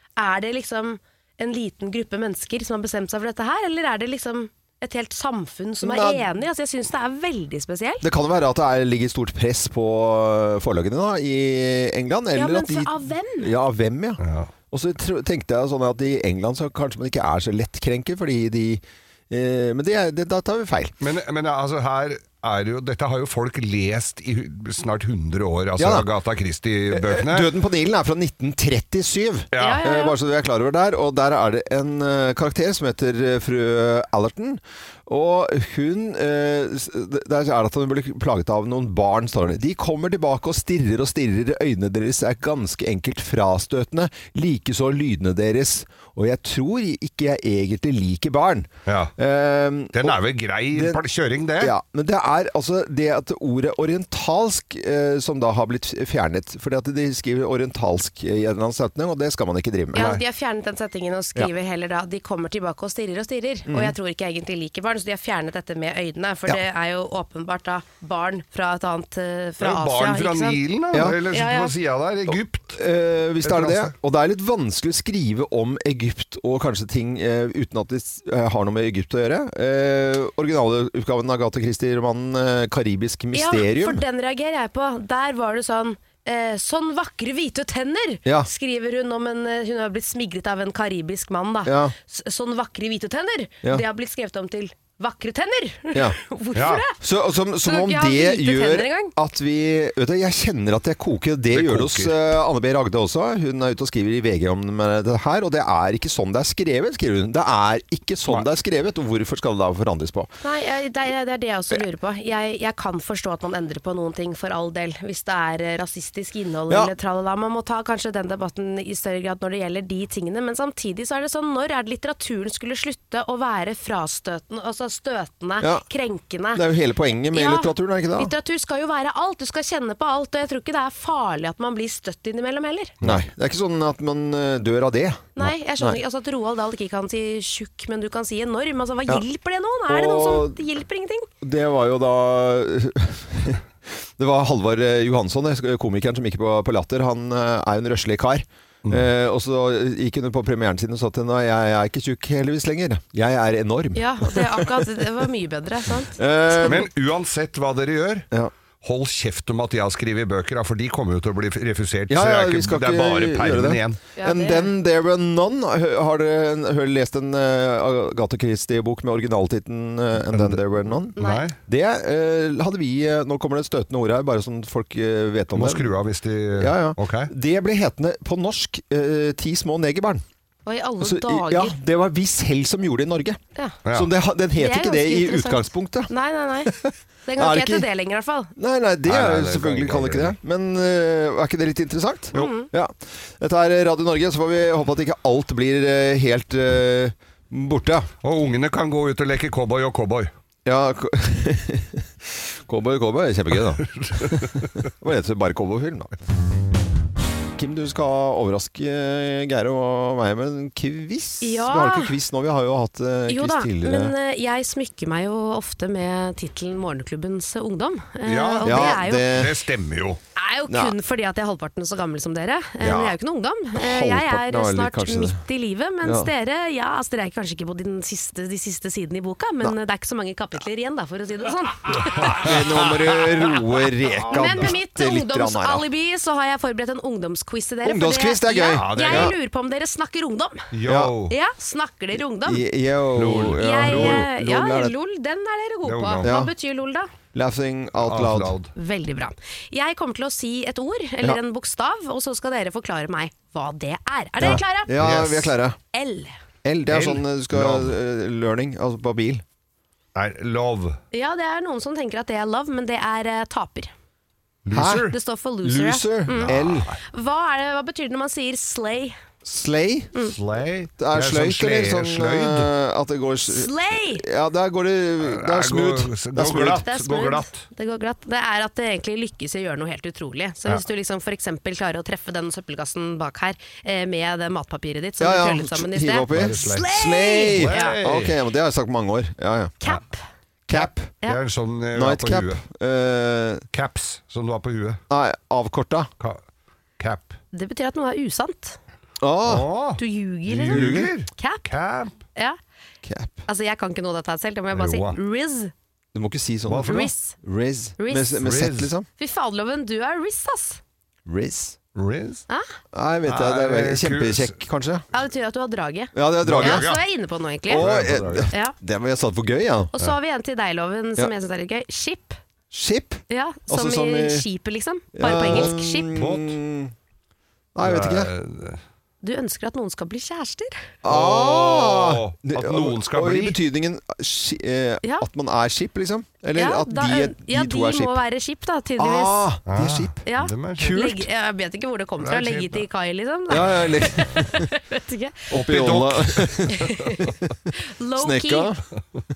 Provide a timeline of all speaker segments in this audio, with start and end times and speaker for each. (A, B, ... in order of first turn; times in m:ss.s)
0:00.2-0:08.0 A
0:05.8-0:06.3 B
0:08.0-0:21.0 B
0:12.3-0:13.5 A
0:14.2-0:14.5 C
0:21.0-0:27.5 C
0:25.8-0:26.1 B
0:26.9-0:50.2 B
0:29.5-0:29.9 C
0:29.6-0:30.1 A
0:48.9-0:49.1 C
0:49.9-0:51.7 C
0:50.7-0:51.0 B
0:51.6-1:00.1 B
0:59.9-1:10.6 A
0:59.9-1:00.2 C
1:03.7-1:03.9 B
1:09.6-1:12.8 C
1:10.9-1:11.2 B
1:11.2-1:11.7 A
1:12.3-1:24.0 B
1:13.4-1:13.9 C
1:23.3-1:37.0 A
1:31.6-1:31.9 B
1:36.5-1:36.8 C
1:37.0-1:50.3 B
1:37.6-1:39.1 A
1:41.5-1:42.3 C
1:50.4-2:06.6 A
2:05.6-2:05.8 B
2:06.5-2:08.3 B
2:07.3-2:13.0 A
2:13.0-2:16.0 B
2:15.4-2:21.3 A
2:19.9-2:20.6 B
2:21.4-2:23.6 B
2:24.2-2:34.9 B
2:33.9-2:36.8 A
2:36.2-2:36.9 B
2:36.6-2:38.3 C
2:38.8-2:44.0 C
2:42.1-2:55.9 B
2:44.2-2:44.7 A
2:50.3-2:51.5 C
2:51.2-2:51.4 A
2:55.5-2:57.3 C
2:56.6-3:00.2 B
3:00.6-3:01.7 A
3:01.0-3:03.4 B
3:03.9-3:06.1 B
3:04.6-3:06.7 A
3:06.6-3:07.9 B
3:07.2-3:08.5 A
3:08.6-3:18.1 B
3:09.1-3:10.3 C
3:12.3-3:12.7 A
3:18.2-3:20.3 C
3:20.6-3:26.1 B
3:23.9-3:24.7 C
3:27.6-3:34.1 B
3:31.4-3:32.1 A
3:33.3-3:39.3 A
3:38.2-3:40.2 C
3:38.6-3:39.5 B
3:40.4-3:52.5 A
3:40.7-3:40.9 B
3:42.8-3:43.1 B
3:42.8-3:43.1 C
3:43.7-3:45.4 B
3:46.0-3:46.3 B
3:52.0-3:53.6 C
3:52.4-3:55.8 B
3:54.2-4:00.7 A
3:54.3-3:54.7 C
3:57.8-3:59.3 B
3:58.7-3:59.3 C
4:00.7-4:01.3 C
4:00.8-4:01.1 B
4:01.3-4:02.6 A
4:02.4-4:04.9 B
4:03.1-4:04.3 C
4:03.6-4:07.1 A
4:05.8-4:06.3 C
4:06.2-4:06.5 B
4:07.3-4:08.6 B
4:08.0-4:08.7 C
4:08.8-4:15.0 A
4:14.4-4:15.8 B
4:14.4-4:15.5 C
4:15.9-4:16.4 A
4:16.6-4:19.4 B
4:16.9-4:17.9 C
4:20.1-4:21.0 C
4:21.1-4:23.9 A
4:24.6-4:25.2 C
4:24.7-4:26.9 B
4:25.1-4:26.5 A
4:26.4-4:27.0 C
4:27.1-4:29.2 A
4:29.4-4:30.1 B
4:30.3-4:32.7 C
4:31.0-4:36.8 B
4:33.5-4:34.2 A
4:35.2-4:37.6 C
4:36.7-4:48.0 A
4:45.2-4:49.7 B
4:46.3-4:47.0 C
4:47.5-4:48.3 C
4:49.8-4:50.2 A
4:50.7-4:51.2 B
4:51.2-4:52.6 C
4:51.9-4:53.6 B
4:53.7-4:55.0 C
4:55.1-4:56.1 B
4:57.0-4:57.4 C
4:57.5-4:58.8 A
4:59.2-4:59.7 B
4:59.4-5:02.1 C
5:00.0-5:01.6 A
5:00.6-5:01.1 B
5:03.0-5:03.4 B
5:03.5-5:05.7 A
5:04.7-5:05.2 C
5:06.1-5:09.1 B
5:06.7-5:07.1 C
5:06.8-5:07.4 A
5:08.0-5:08.5 A
5:08.4-5:08.9 C
5:09.2-5:10.8 A
5:11.2-5:11.8 B
5:12.0-5:12.4 C
5:12.9-5:15.0 B
5:13.2-5:14.6 C
5:15.1-5:17.8 A
5:16.1-5:16.9 B
5:16.4-5:17.0 C
5:17.7-5:19.9 B
5:17.7-5:18.5 C
5:19.9-5:22.4 A
5:22.7-5:24.4 B
5:23.3-5:26.1 A
5:25.1-5:26.9 B
5:25.4-5:26.6 C
5:27.7-5:28.3 B
5:27.8-5:28.8 C
5:29.2-5:30.8 A
5:31.0-5:38.2 B
5:31.0-5:33.6 C
5:36.5-5:39.4 A
5:39.0-5:40.2 B
5:39.7-5:41.0 C
5:40.2-5:45.5 A
5:40.7-5:41.3 B
5:42.2-5:42.8 C
5:43.5-5:44.7 B
5:43.5-5:44.4 C
5:45.5-5:47.3 B
5:45.5-5:47.1 C
5:46.8-5:47.2 A
5:48.0-5:48.7 A
5:48.2-5:48.8 B